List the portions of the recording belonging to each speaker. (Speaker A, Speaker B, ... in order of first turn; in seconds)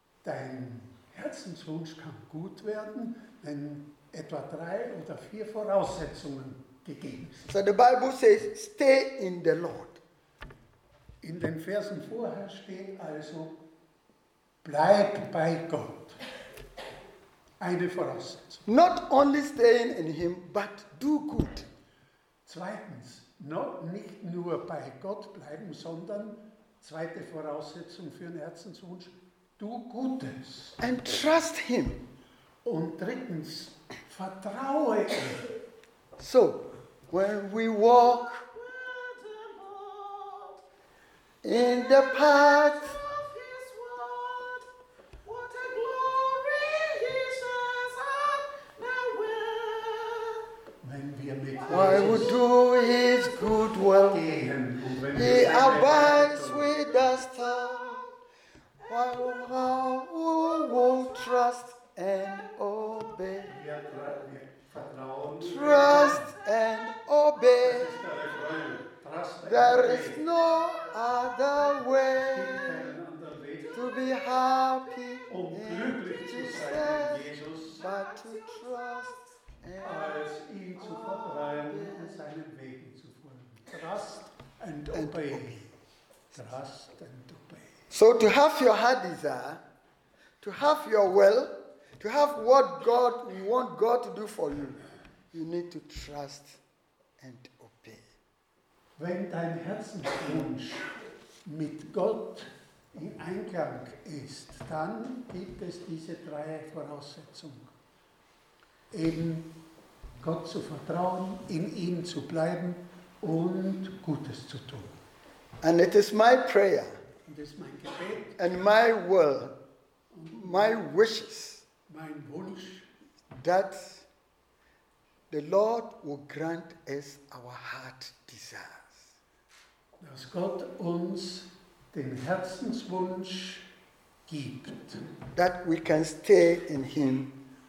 Speaker A: 0.2-7.5, 11.2-13.6, 14.6-16.2, 17.6-18.6, 22.4-30.8, 32.6-35.5, 39.1-40.1, 45.7-46.2, 50.8-52.4, 54.0-56.7, 63.5-66.3, 67.6-70.2, 72.1-74.0, 75.3-77.8, 79.8-85.6, 86.3-87.7, 99.0-100.9, 101.5-107.7, 108.9-109.5, 110.2-115.0, 117.2-118.4, 120.1-120.8, 121.9-122.9, 130.0-133.6, 134.3-135.0
Speaker B: 7.5-10.0, 18.6-21.7, 30.8-32.0, 36.2-38.6, 41.4-43.1, 51.6-54.2, 55.1-58.1, 58.9-63.5, 65.4-68.0, 69.4-72.9, 73.7-77.2, 77.8-82.1, 84.9-85.7, 87.9-89.6, 90.4-94.8, 95.3-96.6, 97.2-98.0, 115.6-116.9, 118.4-119.5, 120.3-121.6, 123.3-124.1, 125.3-129.1, 135.3-137.3